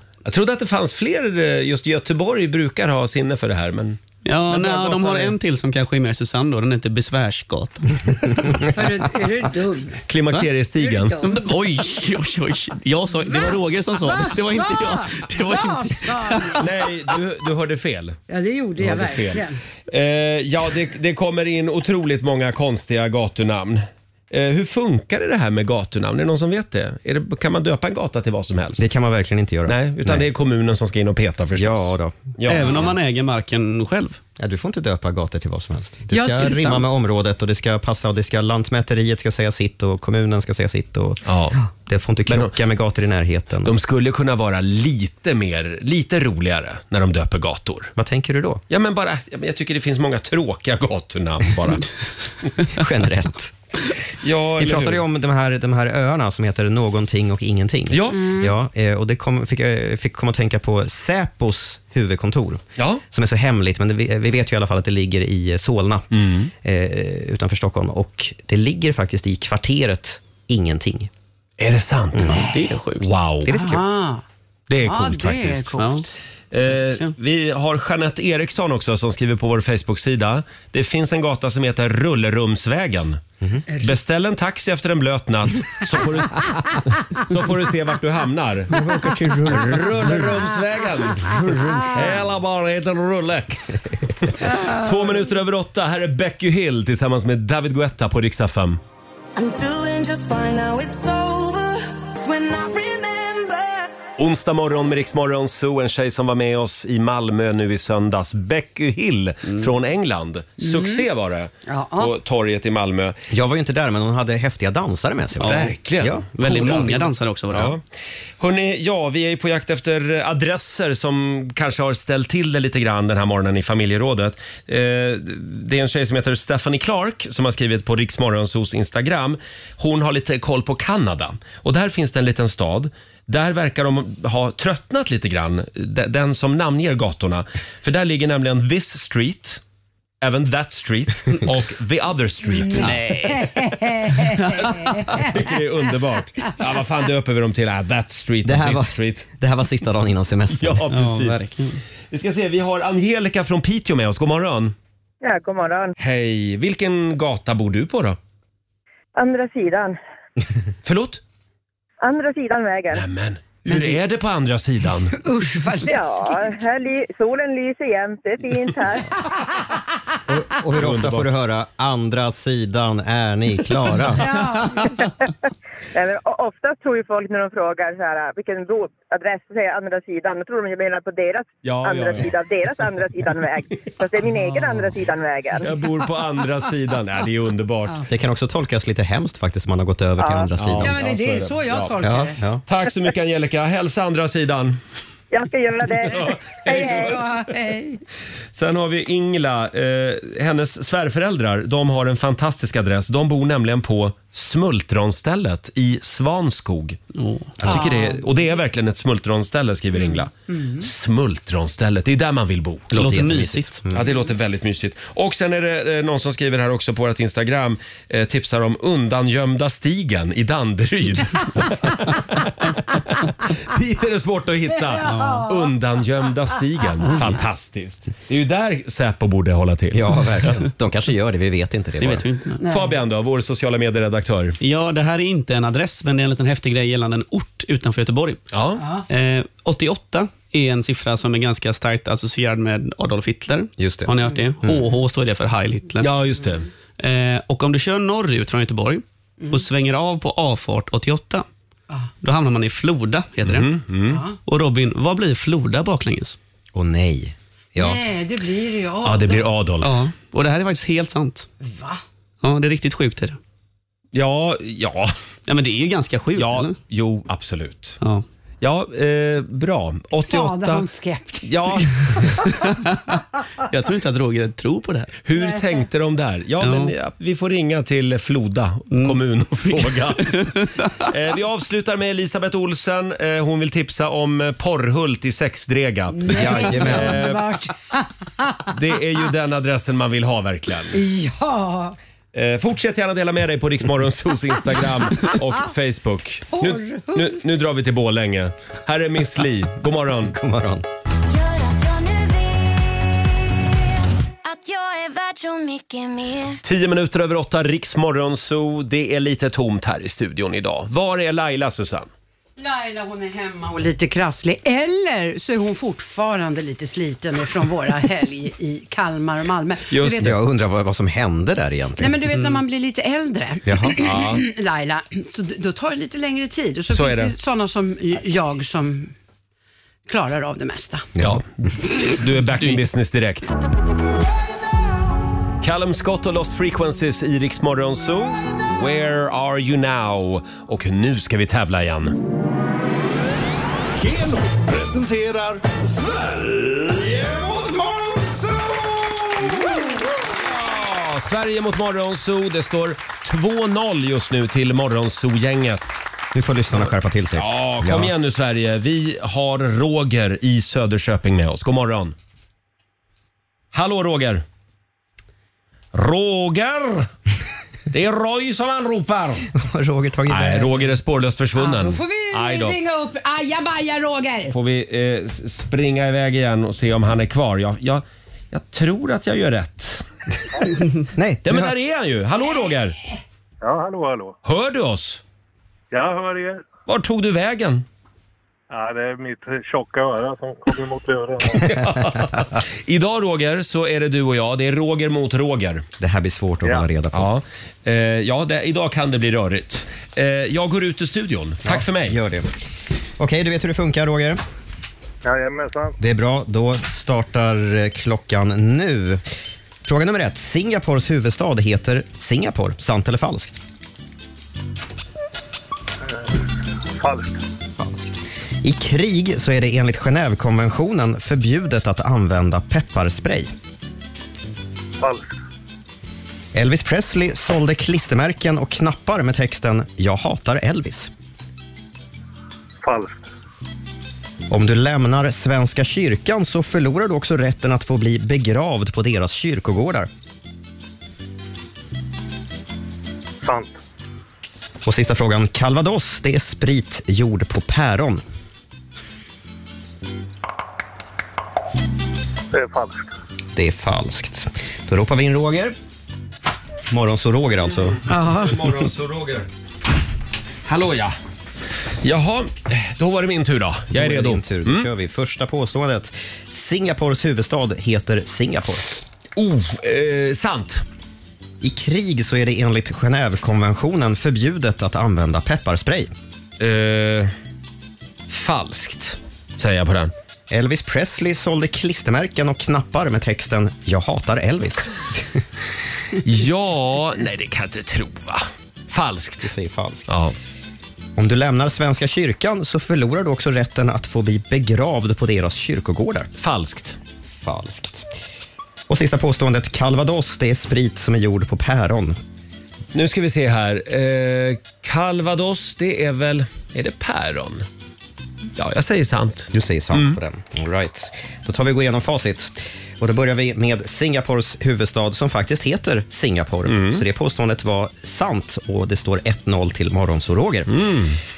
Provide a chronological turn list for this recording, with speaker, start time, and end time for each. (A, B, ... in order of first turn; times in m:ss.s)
0:00.2-0:05.3 A
0:04.2-0:08.6 B
0:08.7-0:10.0 C
0:10.1-0:11.2 A
0:10.8-0:11.5 C
0:11.2-0:16.6 B
0:14.1-0:16.6 C
0:16.6-0:18.2 A
0:18.3-0:19.6 C
0:18.8-0:28.8 A
0:28.8-0:30.2 D
0:29.7-0:32.9 A
0:31.5-0:32.8 D
0:32.4-0:34.2 B
0:34.4-0:43.7 D
0:36.1-0:36.8 C
0:41.2-0:41.6 A
0:42.3-0:42.5 A
0:43.6-0:47.9 A
0:48.0-0:48.6 D
0:48.7-0:51.8 A
0:52.7-0:53.5 D
0:54.2-0:55.0 A
0:54.6-1:11.1 D
0:57.9-0:58.3 A
0:58.1-0:58.5 C
1:06.1-1:06.5 A
1:11.6-1:12.4 A
1:12.1-1:12.5 D
1:12.3-1:13.1 B
1:13.0-1:13.5 A
1:13.4-1:13.8 D
1:13.5-1:14.2 C
1:14.7-1:15.8 A
1:14.8-1:16.1 C
1:15.8-1:16.1 B
1:16.5-1:23.2 A
1:16.8-1:17.1 B
1:23.8-1:28.9 A
1:28.7-1:30.3 D
1:29.4-1:38.8 A
1:31.3-1:32.0 D
1:39.4-1:43.8 E
1:44.2-1:53.2 A
1:50.6-1:51.0 C
1:51.6-1:52.1 C
1:53.3-1:56.3 D
1:55.4-1:55.7 B
1:55.4-1:57.8 A
1:56.3-1:57.7 B
1:58.4-2:19.6 A
2:20.2-2:23.6 A
2:22.8-2:23.5 B
2:23.3-2:25.3 C
2:24.1-2:29.3 A
2:28.4-2:30.9 D
2:30.5-2:31.5 A
2:30.9-2:31.8 B
2:32.1-2:34.7 A
2:35.2-2:35.9 F
2:36.0-2:38.2 A
2:39.2-2:40.0 F
2:40.8-2:41.2 A
2:42.0-2:43.0 F
2:42.9-2:45.2 A
2:43.7-2:44.0 C
2:45.1-2:46.0 C
2:45.8-2:49.2 F
2:50.3-2:54.8 D
2:50.8-2:51.3 A
2:54.2-2:54.9 C
2:55.0-2:55.2 F
2:55.9-3:05.7 F
3:01.6-3:02.3 A
3:05.6-3:08.0 A
3:08.1-3:10.9 D
3:10.2-3:10.5 F
3:10.6-3:12.0 A
3:10.8-3:12.4 C
3:12.0-3:12.6 D
3:12.7-3:14.8 A
3:15.3-3:17.2 F
3:16.0-3:17.3 A
3:16.1-3:18.0 C
3:18.5-3:27.0 A
3:27.1-3:27.6 B
3:27.6-3:32.9 A
3:27.7-3:28.2 C
3:30.0-3:30.8 C
3:32.9-3:33.8 B
3:32.9-3:34.0 D
3:33.9-3:50.1 A
3:45.0-3:45.4 B
3:45.1-3:45.5 C
3:49.9-3:52.2 D
3:52.0-3:52.6 B
3:52.6-3:53.0 C
3:52.7-3:54.6 A
3:54.6-3:58.4 B
3:58.5-3:58.8 A
3:59.1-4:06.1 B
4:03.8-4:04.8 D
4:06.0-4:06.7 A
4:07.0-4:11.4 B
4:12.2-4:13.7 B
4:13.4-4:14.2 A
4:14.1-4:14.4 C
4:14.4-4:16.4 B
4:16.7-4:18.0 D
4:17.8-4:19.4 C
4:19.0-4:20.0 A
4:19.8-4:21.5 B
4:21.6-4:22.0 C
4:22.4-4:23.4 B
4:24.1-4:25.1 A
4:25.5-4:26.8 B
4:26.4-4:28.0 A
4:28.0-4:28.2 B
4:28.6-4:30.8 A
4:30.1-4:32.6 C
4:31.4-4:32.4 A
4:32.6-4:33.2 B
4:33.7-4:35.1 B
4:35.2-4:47.4 A
4:36.6-4:36.9 B
4:38.9-4:41.1 B
4:46.2-4:48.6 C
4:46.3-4:47.2 D
4:48.7-4:51.0 A
4:50.9-4:52.0 C
4:52.3-5:00.3 A
4:56.6-4:57.4 C
5:00.3-5:00.8 D
5:01.3-5:03.3 G
5:04.4-5:06.6 G
5:06.6-5:12.1 A
5:12.6-5:20.3 C
5:19.9-5:20.3 A
5:20.2-5:22.2 D
5:22.0-5:29.1 C
5:22.3-5:22.6 B
5:23.6-5:24.0 D
5:24.0-5:24.4 A
5:26.9-5:27.3 A
5:30.1-5:31.1 C
5:31.2-5:31.4 D
5:31.2-5:31.5 A
5:32.0-5:33.5 A
5:35.6-5:42.2 A
5:44.0-5:49.2 H
5:50.3-5:56.0 A
5:56.3-5:58.1 D
5:57.3-6:02.1 A
6:03.7-6:04.4 A
6:05.9-6:07.1 A
6:07.9-6:09.5 A
6:09.5-6:10.9 D
6:10.3-6:12.8 A
6:11.6-6:14.5 C
6:14.5-6:20.0 A
6:21.1-6:21.7 D
6:21.4-6:23.0 A
6:23.6-6:24.4 I
6:24.4-6:25.2 A
6:25.9-6:26.6 I
6:26.9-6:27.8 A
6:28.7-6:31.6 I
6:31.5-6:35.8 A
6:36.0-6:37.3 D
6:37.1-6:42.2 A
6:41.6-6:42.5 D
6:43.2-6:44.4 D
6:45.2-6:46.0 I
6:46.0-6:49.2 D
6:49.8-6:53.6 D
6:56.9-6:57.4 I
6:57.8-7:03.5 D
7:05.0-7:05.3 I
7:06.5-7:11.1 D
7:12.8-7:13.2 I
7:14.5-7:20.1 D
7:23.4-7:23.8 I
7:24.8-7:28.2 D
7:32.5-7:33.1 I
7:33.5-7:35.8 D
7:36.9-7:38.0 D
7:37.7-7:39.5 A
7:38.1-7:38.5 C
7:40.6-7:41.1 A
7:42.0-7:44.9 A
7:43.9-7:48.9 D
7:49.4-7:50.8 A
7:51.6-7:56.1 D
7:56.6-7:57.3 A
7:58.3-8:00.1 A
8:00.5-8:05.4 D
8:06.2-8:09.5 A
8:09.4-8:10.1 D
8:10.1-8:10.4 A
8:11.2-8:16.3 D
8:16.4-8:17.0 A
8:17.4-8:18.1 D
8:18.9-8:22.2 D
8:22.9-8:27.6 A
8:28.6-8:30.2 A
8:29.5-8:40.9 D
8:36.6-8:37.0 A
8:40.7-8:41.2 A